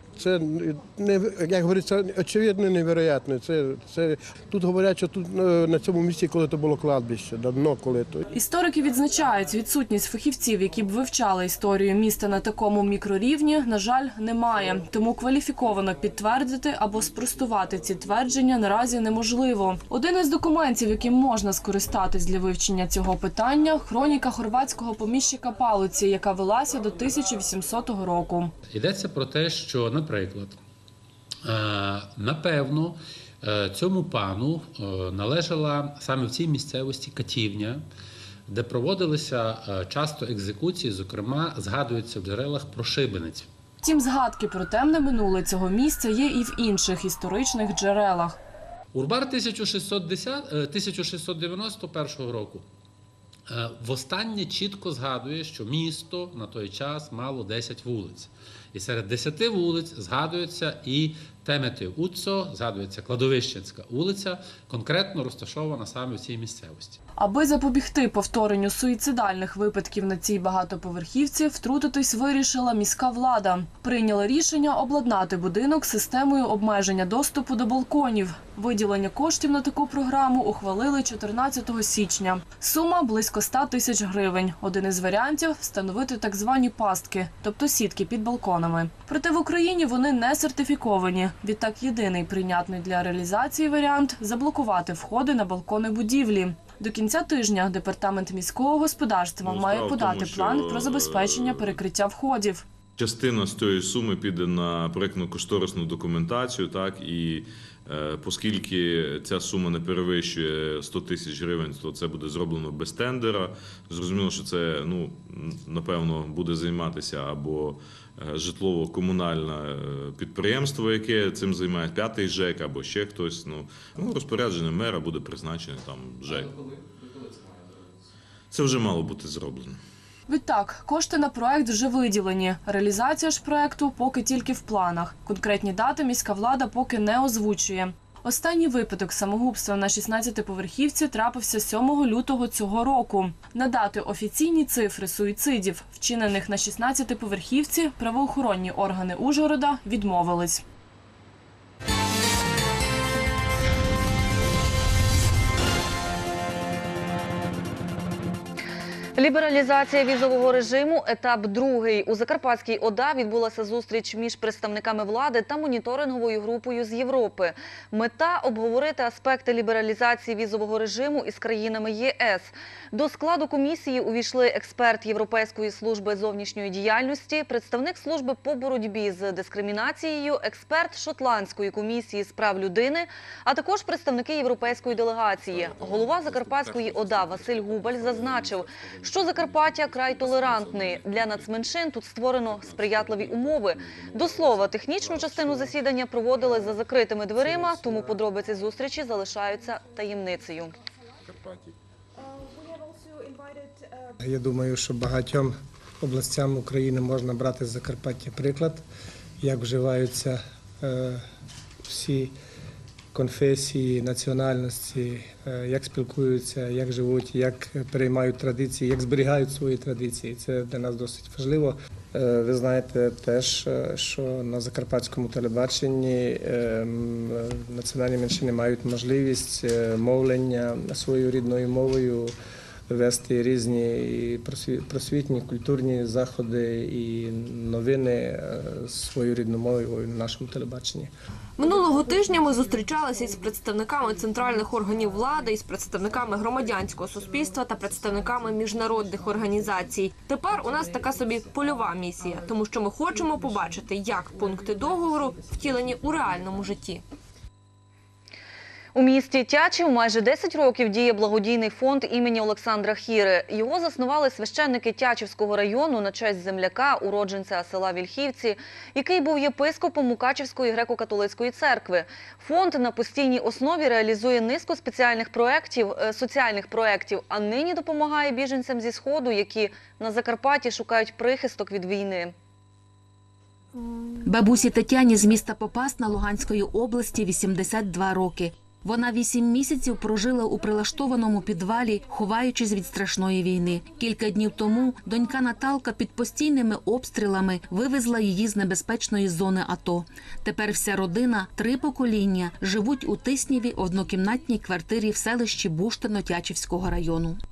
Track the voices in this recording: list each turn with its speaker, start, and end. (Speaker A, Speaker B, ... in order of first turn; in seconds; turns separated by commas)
Speaker A: 0.2-8.2, Speaker B: 8.3-28.5, Speaker C: 28.7-30.6, Speaker C: 31.4-37.8, Speaker C: 38.5-43.5, Speaker B: 43.8-48.4, Speaker C: 48.9-52.6, Speaker C: 53.5-67.0, Speaker B: 67.2-102.6, Speaker D: 99.4-101.8, Speaker D: 103.0-126.5, Speaker D: 128.5-129.8, Speaker B: 130.3-150.6, Speaker E: 159.2-200.7, Speaker F: 204.2-208.8, Speaker F: 209.4-211.2, Speaker F: 211.9-212.3, Speaker F: 213.1-232.3, Speaker F: 232.9-241.1, Speaker G: 241.6-257.0, Speaker E: 258.9-282.3, Speaker H: 284.2-307.4